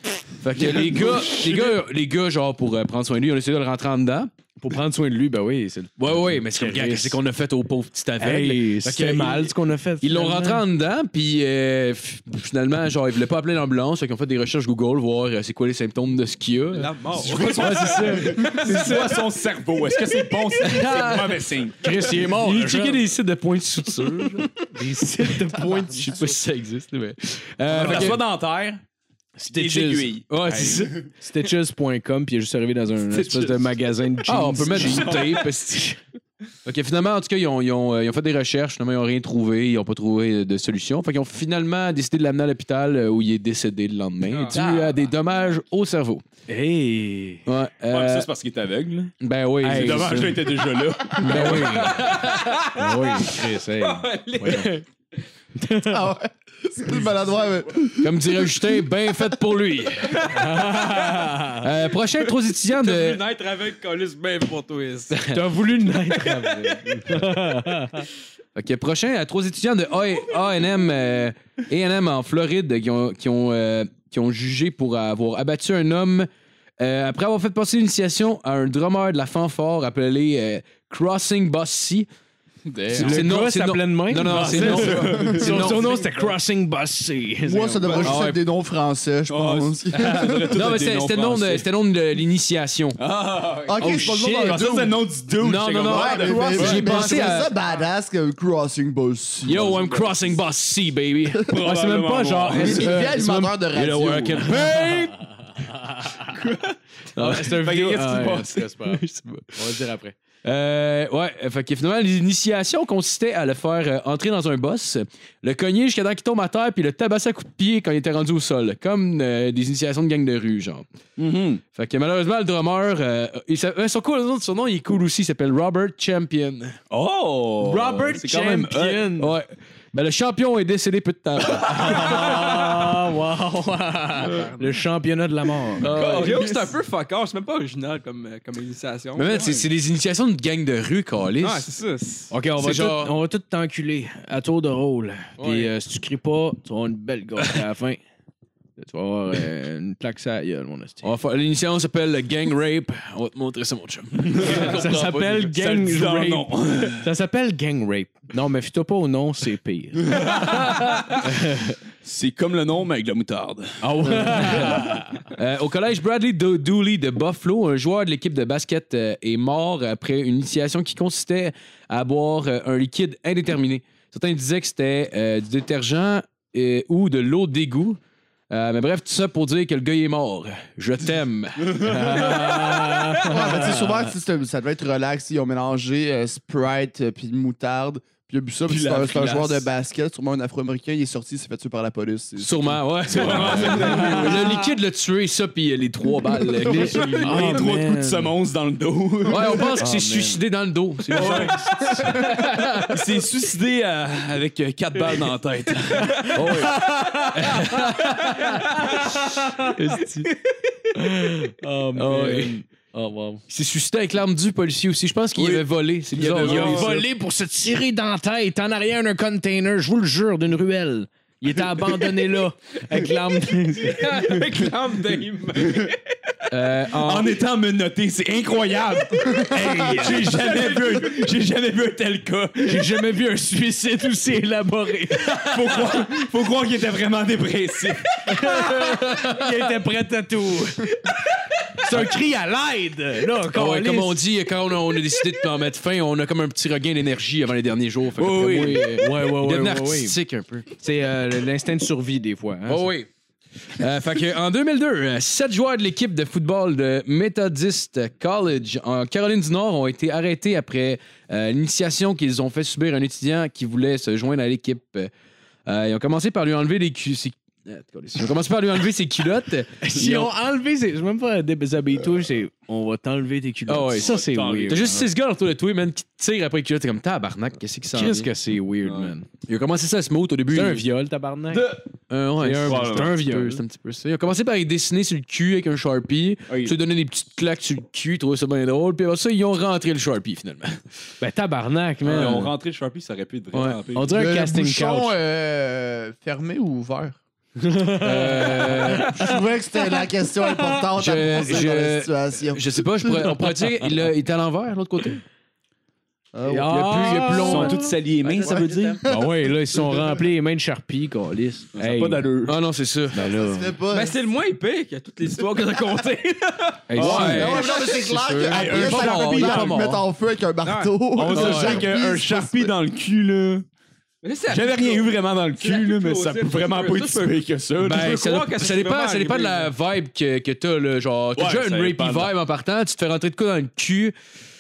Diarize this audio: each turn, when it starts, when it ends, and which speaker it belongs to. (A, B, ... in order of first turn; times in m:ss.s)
0:00.4-0:04.3 A
0:00.7-0:01.6 B
0:04.6-0:07.2 C
0:06.0-0:19.1 A
0:08.2-0:10.6 C
0:16.7-0:19.0 D
0:17.2-0:21.8 B
0:17.6-0:18.6 C
0:20.6-0:24.7 A
0:21.8-0:23.0 C
0:24.7-0:26.1 C
0:25.2-0:28.2 A
0:27.7-0:28.8 B
0:27.8-0:28.2 C
0:29.4-0:35.2 C
0:29.5-0:30.8 B
0:30.3-0:31.1 A
0:34.2-0:36.0 A
0:34.7-0:35.5 B
0:36.6-0:46.3 A
0:44.3-0:44.6 D
0:44.5-0:45.0 B
0:46.5-0:47.4 C
0:47.5-0:48.3 A
0:47.9-0:49.1 B
0:49.2-0:52.1 A
0:49.6-0:50.4 C
0:49.6-0:52.0 B
0:51.2-0:52.1 C
0:51.8-0:54.8 D
0:52.7-0:54.8 C
0:55.6-0:56.0 C
0:55.8-0:58.2 E
0:58.0-1:00.2 A
1:00.0-1:01.3 D
1:00.2-1:01.7 C
1:01.6-1:03.2 A
1:02.3-1:05.4 D
1:05.2-1:08.1 C
1:06.5-1:06.8 D
1:08.6-1:16.3 A
1:16.8-1:22.1 A
1:22.8-1:28.1 C
1:22.9-1:23.2 B
1:22.9-1:25.9 A
1:24.2-1:25.9 B
1:24.9-1:25.5 D
1:27.5-1:30.7 E
1:27.9-1:28.3 B
1:28.0-1:28.4 A
1:29.3-1:31.7 B
1:30.5-1:33.0 A
1:33.0-1:37.3 B
1:33.6-1:35.0 E
1:33.8-1:34.6 A
1:35.4-1:37.5 A
1:35.8-1:39.8 E
1:39.5-1:45.2 A
1:39.5-1:40.4 B
1:41.5-1:43.0 B
1:41.6-1:43.1 C
1:42.5-1:44.6 E
1:44.5-1:45.2 C
1:47.2-1:47.6 A
1:47.2-1:50.2 C
1:47.4-1:48.7 B
1:48.9-1:49.5 A
1:50.4-2:00.8 A
2:01.2-2:01.6 B
2:01.7-2:06.8 A
2:06.9-2:09.1 B
2:07.6-2:09.3 C
2:09.2-2:12.7 A
2:11.5-2:16.7 C
2:14.2-2:14.6 D
2:15.8-2:16.5 A
2:15.9-2:19.4 D
2:19.2-2:21.7 A
2:19.3-2:19.7 B
2:21.4-2:22.3 D
2:22.3-2:23.2 A
2:22.6-2:28.0 C
2:25.4-2:25.7 A
2:27.4-2:27.7 A
2:28.8-2:31.1 C
2:31.0-2:35.4 A
2:34.2-2:37.1 B
2:34.3-2:41.8 C
2:40.1-2:41.3 B
2:42.0-2:43.8 B
2:43.8-2:45.1 C
2:44.0-2:58.0 A
2:44.4-2:44.8 B
2:58.5-3:03.8 A
3:01.9-3:03.8 C
3:03.2-3:13.4 E
3:08.7-3:09.6 B
3:12.4-3:17.8 A
3:13.1-3:14.7 B
3:13.3-3:14.6 C
3:16.3-3:18.3 C
3:16.6-3:19.8 B
3:19.3-3:23.0 A
3:19.4-3:20.4 C
3:21.1-3:22.7 C
3:21.1-3:26.6 B
3:26.1-3:30.3 C
3:26.4-3:26.8 A
3:27.3-3:28.6 A
3:29.8-3:30.3 A
3:30.9-3:33.4 C
3:32.0-3:32.6 A
3:33.5-3:37.0 A
3:35.4-3:37.0 B
3:36.4-3:44.4 C
3:36.5-3:36.8 D
3:43.8-3:46.4 D
3:46.5-3:47.4 A
3:47.0-3:52.9 B
3:49.5-3:50.5 C
3:52.6-3:55.9 C
3:55.2-3:58.0 B
3:58.3-4:04.2 C
3:58.6-3:59.5 A
4:01.9-4:02.1 A
4:03.5-4:10.7 A
4:08.2-4:08.8 B
4:08.4-4:10.2 C
4:10.8-4:12.9 C
4:12.7-4:13.1 A
4:13.8-4:25.1 A
4:25.7-4:30.3 A
4:29.8-4:35.0 C
4:33.7-4:38.3 A
4:33.9-4:35.1 B
4:37.9-4:39.3 C
4:38.8-4:39.2 B
4:39.5-4:40.8 A
4:40.5-4:41.7 C
4:41.5-4:41.9 B
4:42.1-4:50.8 A
4:42.4-4:43.6 C
4:42.7-4:43.2 B
4:46.5-4:46.8 B
4:51.2-4:52.5 C
4:52.0-4:54.2 B
4:52.1-4:52.5 A
4:53.5-4:53.8 A
4:54.0-4:55.1 C
4:54.1-4:57.2 E
4:57.6-4:59.3 C
4:58.0-4:59.3 A
4:58.8-5:03.4 E
5:01.0-5:05.2 A
5:06.3-5:07.2 E
5:06.4-5:07.9 C
5:06.6-5:07.8 A
5:07.3-5:09.1 B
5:08.4-5:09.2 E
5:09.0-5:12.3 C
5:11.8-5:12.6 B
5:12.4-5:13.4 A
5:13.1-5:13.7 C
5:13.1-5:14.2 E
5:13.9-5:17.0 D
5:16.9-5:20.0 A
5:16.9-5:17.9 B
5:17.0-5:22.7 E
5:18.2-5:18.6 C
5:18.4-5:19.9 B
5:20.6-5:21.0 D
5:21.1-5:23.7 B
5:21.3-5:21.9 A
5:24.2-5:29.7 D
5:24.5-5:28.2 B
5:27.8-5:34.1 A
5:31.4-5:32.3 B